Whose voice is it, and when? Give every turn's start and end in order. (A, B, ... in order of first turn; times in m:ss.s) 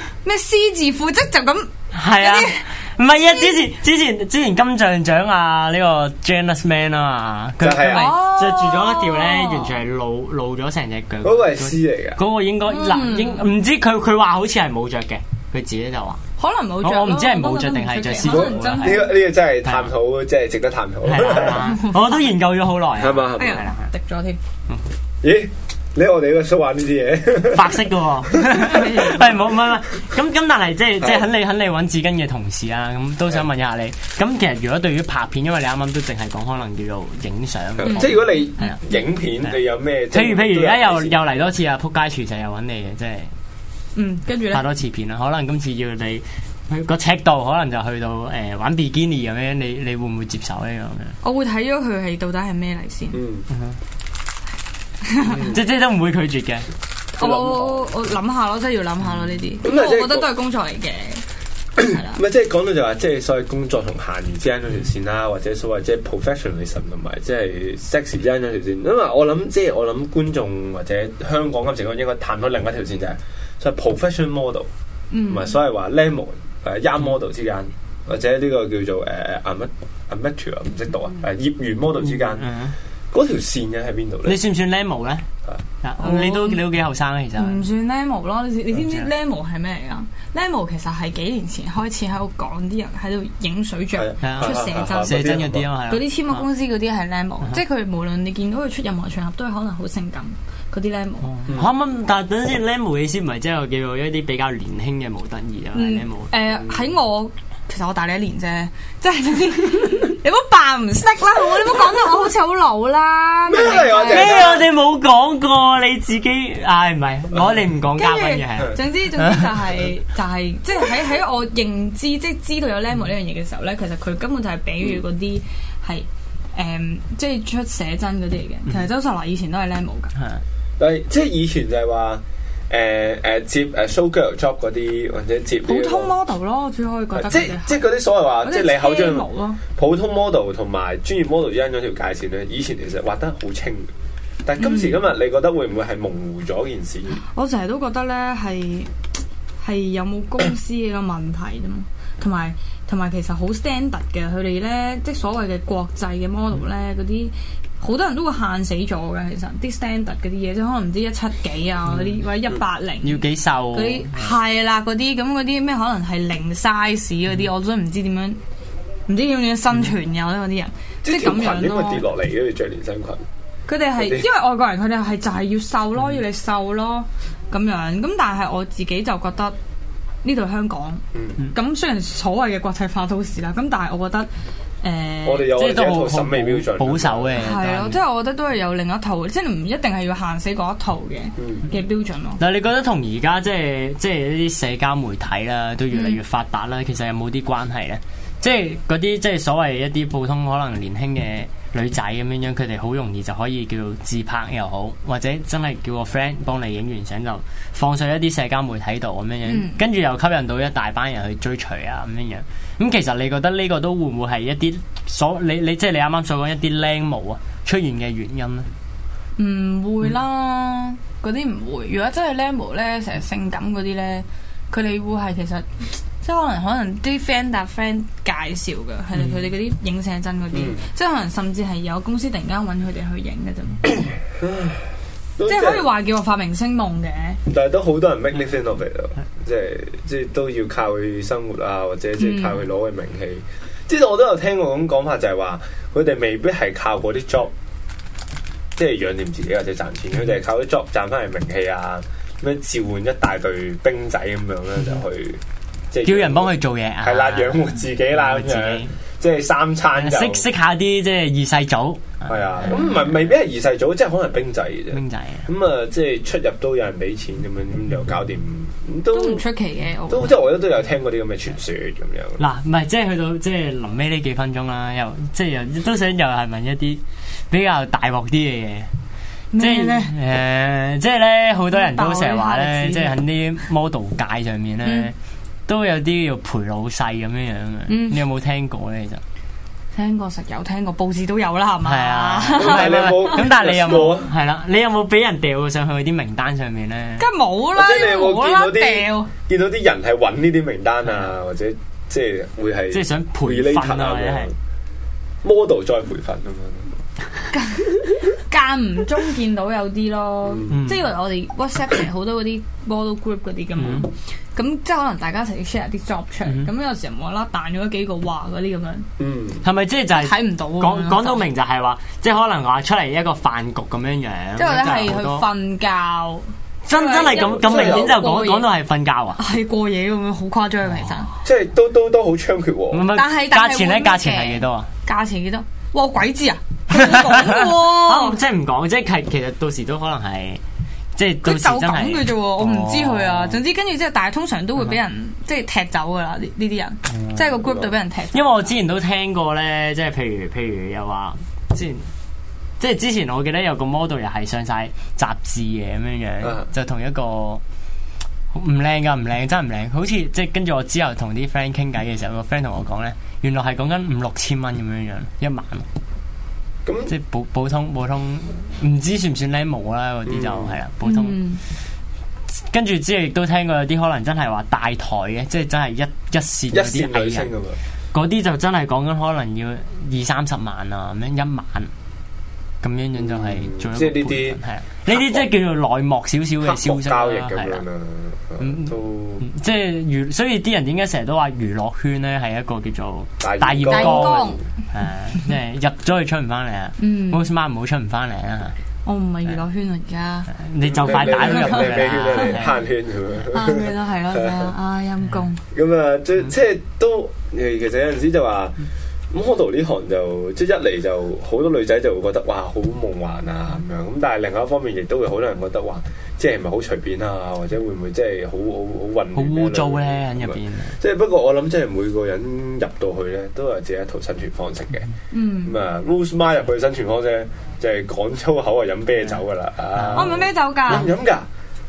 0:00.2-0:02.7 A
0:01.9-0:16.2 B
0:07.6-0:08.1 C
0:07.8-0:09.7 A
0:11.2-0:12.2 C
0:12.7-0:13.4 A
0:16.4-0:19.1 A
0:16.8-0:19.1 B
0:18.2-0:21.7 C
0:19.6-0:19.9 B
0:21.0-0:23.9 B
0:21.6-0:21.9 A
0:23.0-0:23.6 C
0:23.3-0:24.4 A
0:25.2-0:27.8 C
0:27.5-0:38.7 B
0:28.5-0:29.5 A
0:37.8-0:41.4 C
0:40.1-0:43.3 B
0:43.9-0:44.6 A
0:44.5-0:51.2 B
0:51.2-0:53.2 A
0:53.1-0:53.5 C
0:55.0-0:55.4 A
0:55.2-0:55.6 C
0:55.4-0:56.7 B
0:57.2-1:01.2 A
0:57.2-0:57.9 C
0:59.6-1:00.3 C
1:01.8-1:02.2 A
1:01.8-1:14.7 C
1:15.1-1:15.6 A
1:15.3-1:22.5 C
1:22.0-1:22.8 B
1:23.1-1:24.4 C
1:24.2-1:25.2 B
1:25.8-1:27.6 B
1:26.0-1:26.6 A
1:27.4-1:35.4 A
1:28.7-1:29.1 B
1:34.0-1:35.7 C
1:34.2-1:36.4 B
1:35.9-1:41.4 A
1:41.3-1:46.3 B
1:45.7-1:54.5 A
1:53.5-1:54.6 C
1:54.0-1:59.4 B
1:57.8-2:10.1 A
2:10.2-2:10.4 B
2:10.8-2:16.1 C
2:15.6-2:17.8 A
2:17.1-2:23.9 C
2:18.4-2:19.6 A
2:24.4-2:27.2 C
2:24.6-2:24.9 A
2:27.1-2:28.9 A
2:29.6-2:48.4 A
2:41.9-2:42.2 B
2:43.0-2:44.3 B
2:49.1-2:52.0 A
2:51.0-2:53.2 C
2:53.7-2:59.6 A
2:54.0-2:54.2 C
3:00.2-3:04.3 A
3:04.8-3:05.6 A
3:05.2-3:07.4 C
3:05.5-3:08.0 B
3:07.4-3:12.4 A
3:12.4-3:38.7 B
3:15.9-3:16.2 A
3:29.4-3:29.8 A
3:39.4-3:54.0 A
3:50.5-3:50.8 C
3:54.4-3:54.8 C
3:55.4-3:55.9 C
3:55.4-3:57.4 A
3:57.4-4:07.5 C
4:02.2-4:02.6 A
4:08.8-4:20.4 C
4:16.0-4:18.9 B
4:20.0-4:23.0 B
4:22.3-4:29.4 C
4:24.9-4:25.5 B
4:29.1-4:30.3 A
4:30.1-4:32.4 C
4:32.4-4:38.9 B
4:39.5-4:40.1 A
4:39.6-4:45.1 B
4:41.7-4:43.2 A
4:44.8-4:45.1 A
4:45.7-4:49.2 B
4:47.9-4:48.2 A
4:49.9-4:54.0 A
4:51.8-4:57.3 B
4:52.6-4:54.3 C
4:57.2-4:59.3 A
4:57.7-5:04.5 C
5:02.9-5:04.5 B
5:05.4-5:06.9 C
5:07.5-5:19.1 A
5:10.4-5:10.8 C
5:10.7-5:11.0 B
5:13.8-5:14.1 B
5:19.2-5:19.6 C
5:19.6-5:25.5 B
5:20.1-5:21.5 A
5:24.6-5:28.7 A
5:26.8-5:29.4 B
5:27.3-5:28.2 C
5:29.4-5:31.3 A
5:31.4-5:33.1 C
5:32.9-5:34.9 B
5:33.1-5:38.4 A
5:36.9-5:40.6 B
5:41.2-5:43.6 B
5:41.4-5:48.7 A
5:47.1-5:47.5 B
5:48.3-5:52.1 B
5:52.8-5:57.6 B
5:58.5-6:05.8 B
6:06.8-6:07.1 C
6:07.1-6:11.4 B
6:10.3-6:10.8 C
6:11.0-6:11.6 A
6:12.7-6:17.5 B
6:16.7-6:17.8 C
6:18.1-6:21.9 B
6:22.8-6:27.8 B
6:23.2-6:25.5 C
6:26.6-6:29.4 C
6:28.6-6:38.8 B
6:33.4-6:34.6 C
6:33.9-6:34.6 A
6:37.0-6:37.4 A
6:39.0-6:40.5 A
6:40.5-6:42.7 B
6:40.8-6:44.6 C
6:41.1-6:42.7 A
6:43.5-6:45.6 A
6:45.7-6:48.7 C
6:49.3-7:05.1 C
6:59.3-7:01.0 B
7:05.3-7:05.8 A
7:05.6-7:11.5 C
7:10.0-7:11.1 B
7:10.1-7:11.1 A